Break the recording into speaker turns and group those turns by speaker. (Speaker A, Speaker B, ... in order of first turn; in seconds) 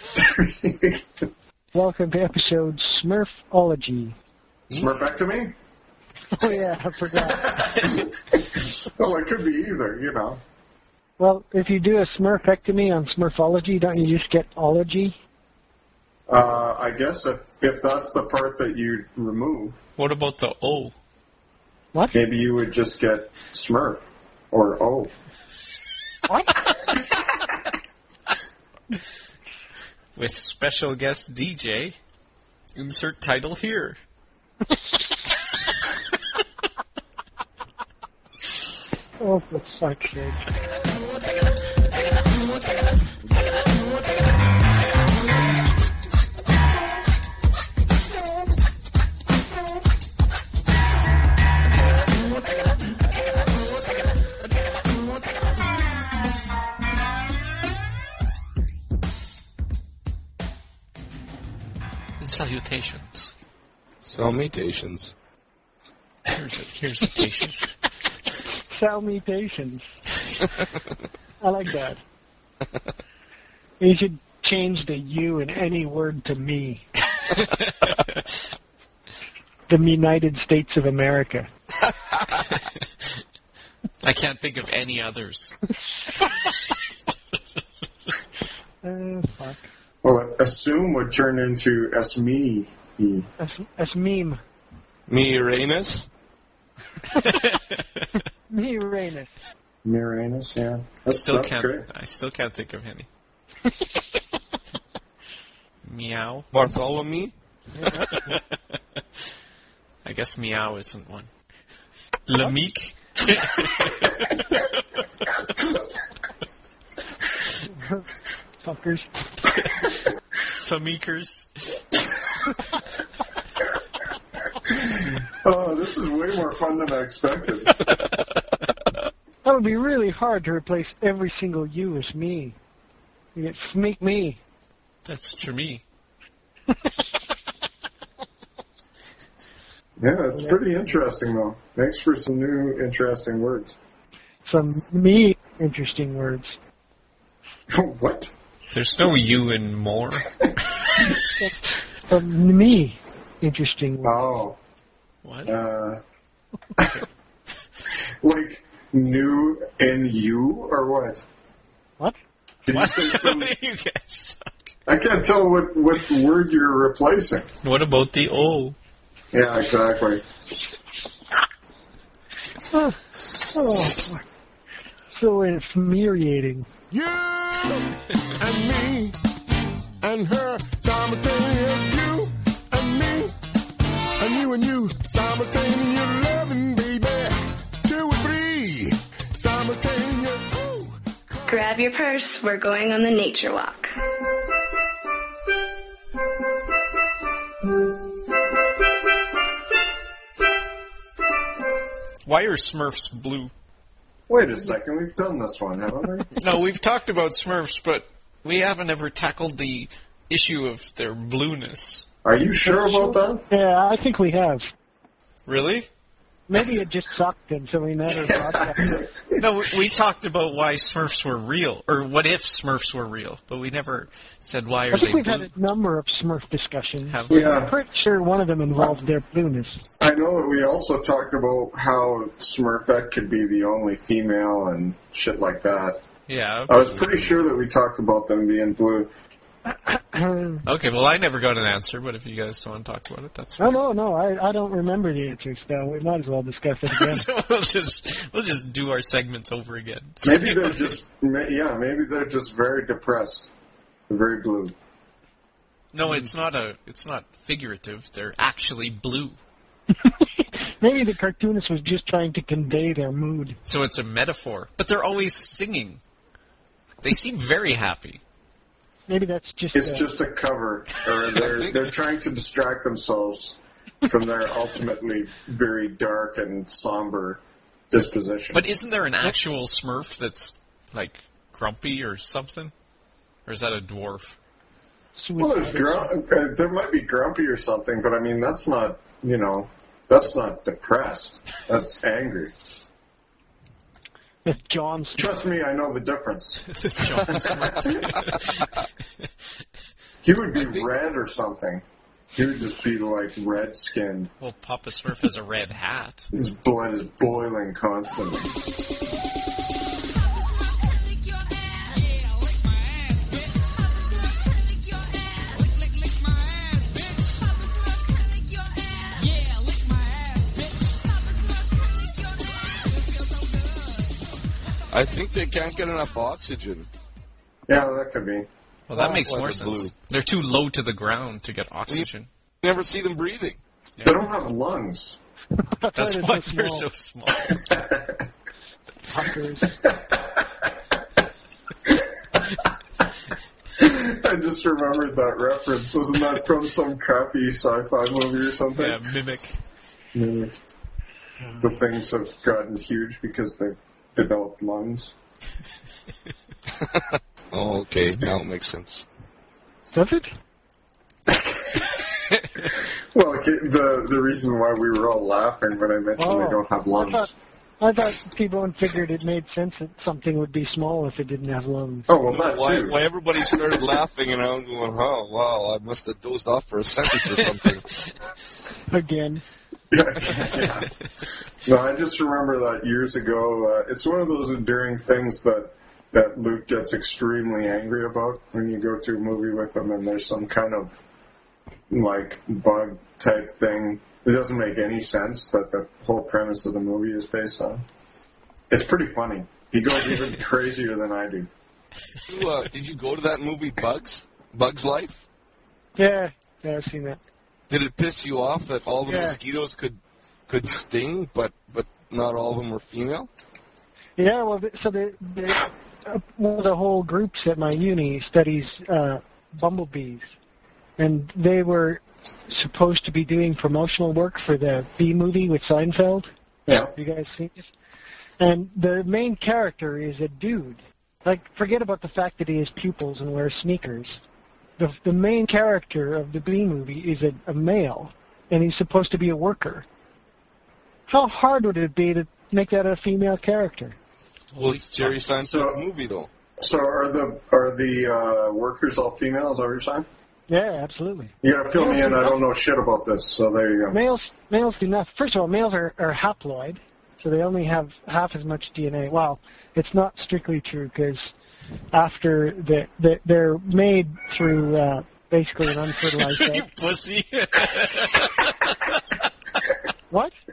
Speaker A: 0.2-1.0, 4.7-5.5, 7.3-10.4, 16.3-19.8, 22.1-25.1, 90.0-93.3, 99.8-101.9, 124.7-127.8, 140.0-143.8, 147.7-148.3, 154.0-154.6, 155.5-156.0, 156.8-157.0, 158.2-161.2, 162.7-163.5, 164.9-167.5, 169.3-170.2, 204.3-206.3, 212.2-213.4, 218.1-219.5, 227.3-227.7, 230.0-236.0, 236.7-239.1, 250.2-253.5, 254.1-254.8, 269.7-278.6, 285.4-292.5, 295.2-296.6, 297.3-297.8, 300.2-301.8, 302.4-304.3, 306.3-308.5, 327.7-328.5, 334.0-335.2, 337.5-338.2, 339.8-340.3, 343.8-349.0, 350.1-350.6, 351.6-355.1, 361.4-361.9, 362.7-367.3, 372.1-373.6, 379.9-380.9, 381.6-391.0, 391.9-397.8, 398.7-401.5, 426.7-426.9, 445.4-445.8, 446.6-450.1, 451.4-454.0
Speaker B: 1.7-4.2, 6.3-7.5, 11.2-15.2, 26.3-26.6, 39.2-40.5, 68.7-69.8, 71.4-72.0, 73.8-76.8, 79.7-81.5, 88.8-89.7, 93.4-94.4, 98.5-99.3, 107.8-108.1, 117.7-118.1, 118.6-119.1, 129.4-132.6, 133.3-134.4, 140.3-141.0, 144.5-146.5, 152.1-154.2, 173.5-174.2, 175.2-176.7, 212.7-214.6, 216.5-219.0, 224.9-229.8, 239.7-240.6, 243.6-247.3, 260.4-263.6, 269.1-270.1, 285.2-286.1, 294.4-295.4, 335.6-336.9, 339.1-339.7, 351.4-351.7, 359.9-360.3, 366.2-372.1, 378.9-379.4, 406.0-407.2, 409.1-409.4, 414.2-420.2, 421.0-426.3, 426.9-427.7, 428.4-434.2, 434.8-439.9, 441.1-444.0, 450.5-452.4, 453.9-461.3, 461.9-466.7
Speaker C: 20.0-20.9, 30.1-32.0, 32.8-34.0, 62.2-63.3, 66.3-67.8, 77.3-77.9, 84.0-85.5, 97.2-97.6, 101.1-103.1, 105.8-106.5, 108.1-108.4, 110.0-111.3, 112.3-114.6, 120.6-121.8, 135.1-135.8, 148.7-150.3, 155.2-155.5, 162.7-164.7, 167.6-168.8, 202.3-203.5, 206.4-212.1, 215.5-215.9, 219.4-225.5, 227.1-227.6, 236.3-237.1, 240.7-243.7, 246.9-250.9, 255.9-259.4, 263.6-266.0, 267.0-268.2, 278.5-282.7, 283.5-284.4, 296.7-298.7, 304.4-306.3, 328.9-332.3, 335.9-337.6, 348.7-349.6, 444.6-445.2, 466.2-469.0
Speaker D: 64.0-65.1, 95.1-96.1, 106.5-107.3, 271.4-271.9, 324.9-326.9, 328.9-329.9, 332.6-333.6, 356.8-359.1, 372.3-377.9, 402.3-405.2, 407.7-413.3, 444.6-446.3
Speaker E: 176.9-177.9, 178.4-179.2, 180.0-183.3, 184.2-191.4
Speaker F: 191.5-193.9